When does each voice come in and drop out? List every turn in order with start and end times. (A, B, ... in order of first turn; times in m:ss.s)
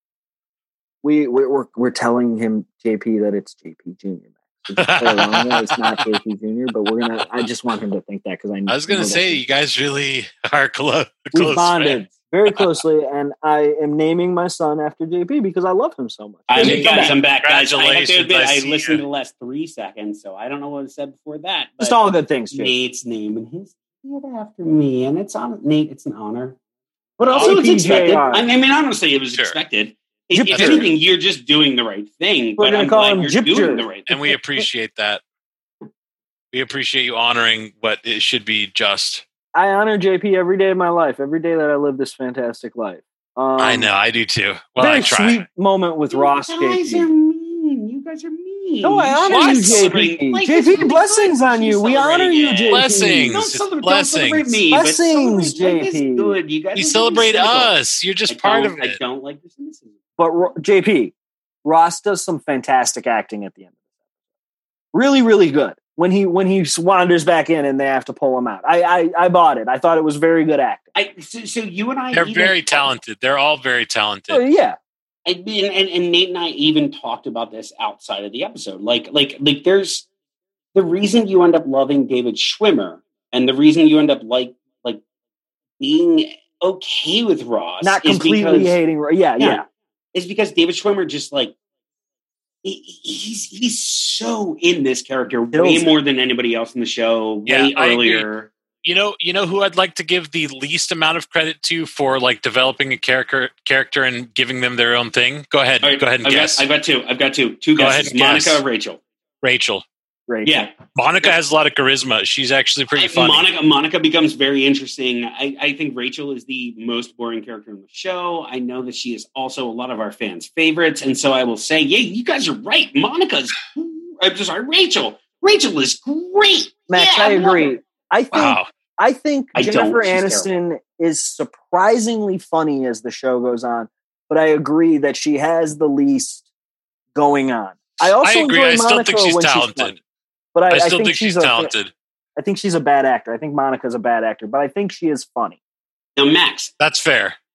0:01.0-0:09.4 A
0:04.8-0:06.0 B
0:07.0-0:07.4 B
0:08.7-0:12.8 B
0:11.3-0:17.2 A
0:16.5-0:26.6 C
0:16.6-0:19.0 B
0:21.8-0:22.7 A
0:27.2-0:34.1 C
0:27.3-0:27.6 B
0:27.4-0:28.4 A
0:30.3-0:30.9 A
0:30.5-0:30.9 B
0:32.6-0:34.6 A
0:34.1-0:35.2 B
0:36.5-0:39.2 B
0:39.5-0:43.9 A
0:43.6-0:45.4 B
0:44.8-0:47.1 A
0:46.1-0:57.7 C
0:48.8-0:53.4 A
0:49.3-0:49.9 B
0:52.7-0:54.6 B
0:54.7-0:56.4 A
0:56.7-0:59.0 B
0:58.3-0:59.9 C
1:00.2-1:03.7 A
1:04.9-1:10.8 A
1:10.9-1:12.9 C
1:12.1-1:14.4 B
1:14.3-1:14.8 A
1:15.2-1:20.1 C
1:20.7-1:25.0 C
1:25.8-1:28.8 C
1:27.8-1:29.6 A
1:30.1-1:31.5 C
1:32.6-1:38.5 C
1:35.5-1:35.9 A
1:37.4-1:38.3 B
1:38.8-1:46.6 B
1:45.8-1:49.0 C
1:47.8-1:48.6 B
1:49.4-1:49.8 B
1:50.3-1:50.7 A
1:50.4-1:51.3 C
1:50.9-1:53.4 B
1:52.9-2:07.7 C
2:06.9-2:16.4 A
2:08.3-2:08.6 B
2:09.5-2:10.5 C
2:17.1-2:20.0 A
2:18.0-2:20.0 B
2:20.5-2:21.7 A
2:20.7-2:21.9 B
2:22.4-2:25.6 A
2:26.2-2:26.7 C
2:26.8-2:27.4 B